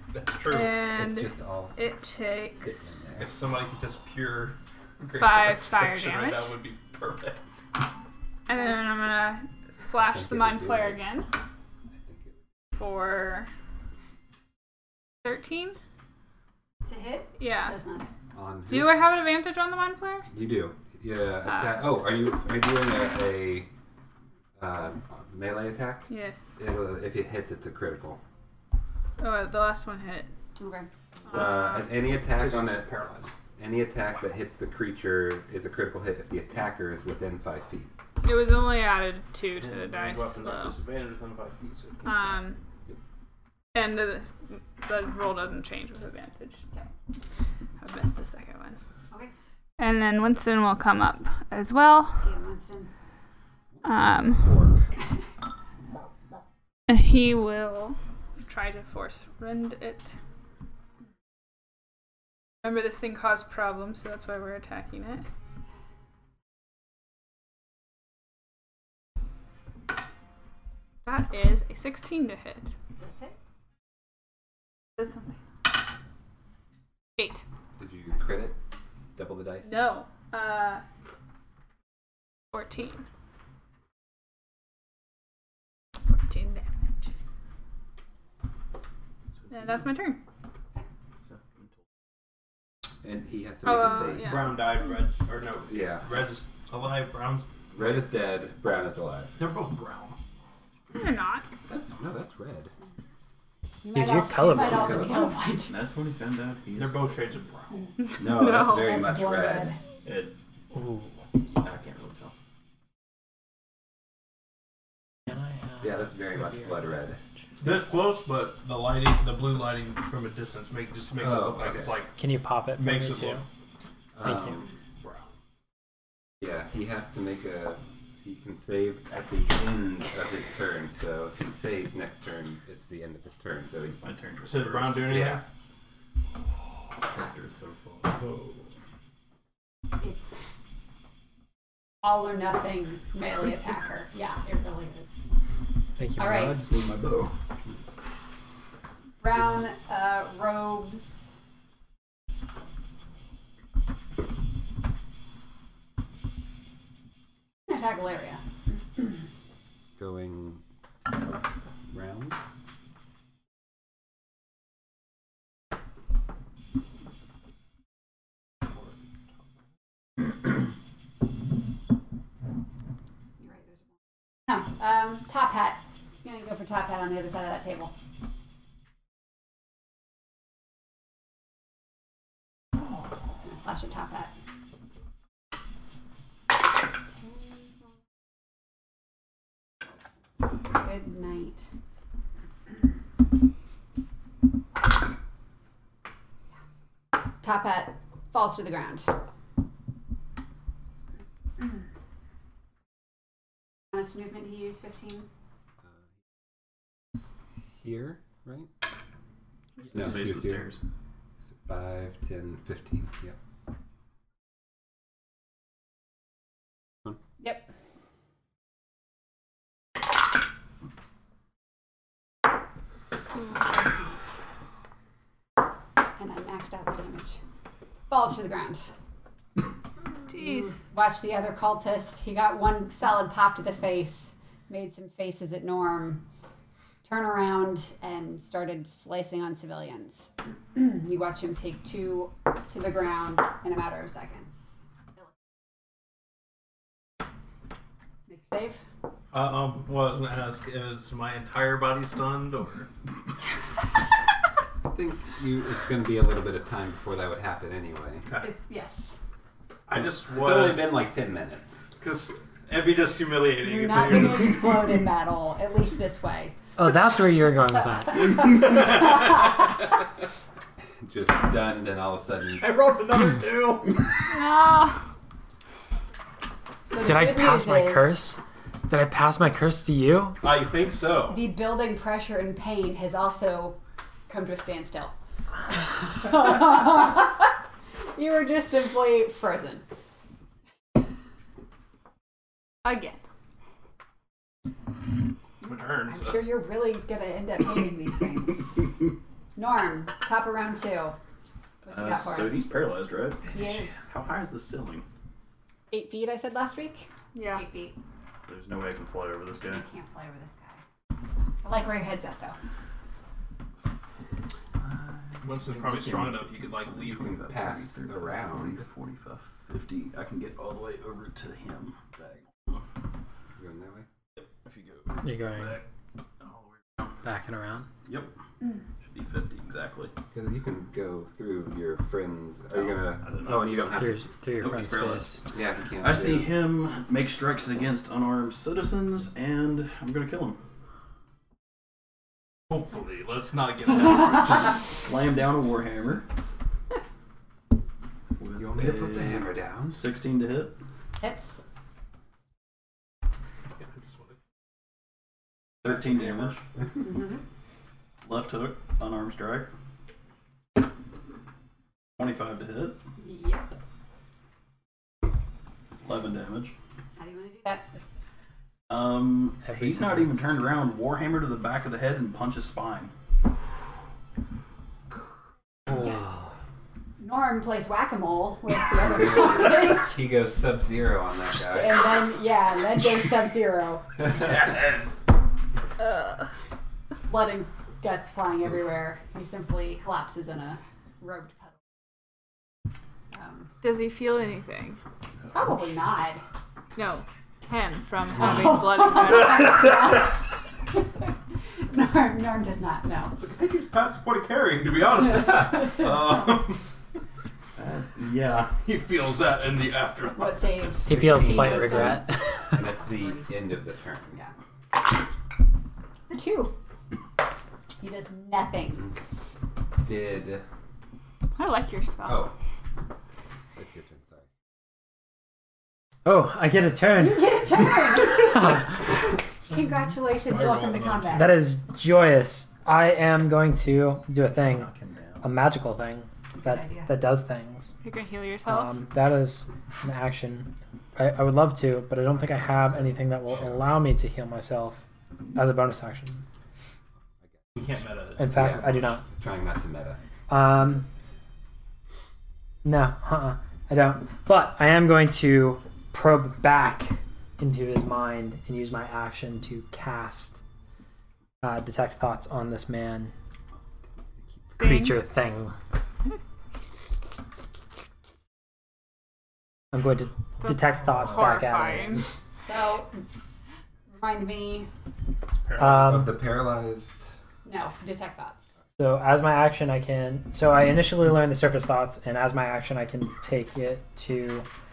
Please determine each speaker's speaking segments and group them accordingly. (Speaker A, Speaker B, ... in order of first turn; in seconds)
Speaker A: 0.1-0.9, 3.2-7.4, 32.2-33.4, 39.5-42.4, 94.2-98.0, 99.4-100.2, 106.7-107.9, 117.6-122.2, 122.7-123.4, 134.4-135.4, 249.3-252.9, 258.2-258.5, 259.9-261.0, 262.0-264.8, 272.6-274.0, 280.4-281.4, 295.6-296.6, 315.4-317.4, 342.7-344.8, 353.8-354.4, 403.4-406.8, 408.7-410.9, 430.4-431.6, 447.7-449.0, 475.5-476.2
Speaker B: 0.5-2.8, 5.2-6.6, 8.5-11.3, 12.8-13.5, 15.2-15.8, 17.4-17.7, 18.7-20.3, 26.1-26.5, 29.2-30.3, 31.3-31.9, 38.2-40.8, 42.0-42.6, 43.8-46.6, 47.8-48.8, 49.8-52.2, 53.8-54.6, 56.9-60.2, 62.6-65.3, 71.0-72.7, 75.0-75.3, 77.2-77.4, 79.6-80.8, 82.5-83.0, 86.0-87.1, 89.5-90.2, 93.6-94.7, 100.9-101.5, 108.0-109.0, 230.3-230.8, 274.3-275.0, 292.9-293.2, 307.3-307.6, 386.0-386.4, 393.8-395.0, 396.9-399.9, 421.6-422.5, 438.0-438.9, 464.8-465.2, 470.6-472.2
Speaker C: 0.9-3.4, 9.9-11.1, 12.0-12.4, 18.3-19.0, 20.3-23.7, 24.6-28.2, 31.3-33.0, 33.5-37.9, 53.8-54.9, 77.8-78.6, 79.2-79.8, 93.0-94.5, 95.7-96.2, 97.7-99.4, 101.7-102.7, 104.5-105.3, 108.2-109.8, 115.8-117.2, 121.2-122.0, 124.2-124.7, 126.4-134.0, 135.0-135.4, 160.0-160.6, 161.9-162.4, 207.8-208.7, 209.9-210.7, 211.7-213.4, 254.8-258.3, 260.0-261.8, 271.0-272.8, 317.2-318.8, 323.6-324.1, 330.3-336.6, 348.6-350.0, 379.0-382.0, 411.1-414.4, 420.0-420.6, 422.2-422.5, 423.8-424.5, 448.5-450.2, 475.8-477.2
Speaker D: 16.9-18.1, 30.6-30.9, 52.2-52.9, 73.0-73.3, 103.8-105.8, 108.7-109.8, 140.0-140.4, 142.0-145.2, 146.2-146.6, 149.2-151.3, 157.7-158.4, 173.4-173.8, 174.5-177.9, 183.4-184.3, 190.7-191.7, 197.4-199.1, 203.9-205.3, 217.4-217.7, 226.2-227.4, 228.1-228.9, 230.4-236.2, 237.0-244.6, 248.3-248.8, 258.4-259.1, 263.6-266.6, 268.1-269.3, 276.9-278.2, 281.3-283.8, 284.3-285.1, 285.8-287.6, 288.1-289.9, 295.6-298.9, 299.6-301.2, 301.8-302.7, 303.5-304.0, 305.9-308.0, 309.7-310.8, 311.6-312.6, 351.2-351.6, 357.0-357.4, 363.2-363.7, 367.2-367.9, 377.2-380.2, 381.6-384.1, 387.3-391.8, 393.3-393.7, 395.5-396.4, 398.4-400.4, 401.9-403.4, 410.4-412.3, 413.0-413.5, 416.3-416.7, 418.0-419.1, 427.1-431.6, 436.6-437.1, 472.6-473.2, 474.1-474.9, 477.6-478.6
Speaker E: 91.2-91.7, 105.6-107.3, 110.0-110.4, 111.6-112.3, 134.0-135.2, 136.9-138.6, 146.3-147.3, 209.9-210.8, 301.9-305.1, 308.5-309.8, 314.8-322.9, 324.4-325.8, 326.4-327.1, 328.1-328.3, 329.0-330.1, 332.8-333.9, 336.0-340.6, 344.9-346.3, 348.4-350.8, 355.8-356.6, 358.2-359.7, 362.2-363.0, 366.0-366.8, 368.9-373.1, 407.8-408.8, 434.6-435.5
Speaker F: 103.9-105.1, 110.7-111.1, 115.3-116.7, 122.2-123.4, 124.2-124.6, 146.0-146.7, 266.8-268.5, 277.0-280.4, 325.2-325.8, 327.2-327.9, 333.9-335.5, 369.6-370.7, 411.1-412.8, 426.2-427.7, 431.3-437.9, 438.6-445.0, 445.5-446.4, 448.4-449.3, 450.5-451.1, 452.8-460.6, 461.6-463.3, 464.8-465.7, 469.9-472.2, 475.8-476.4, 479.0-484.7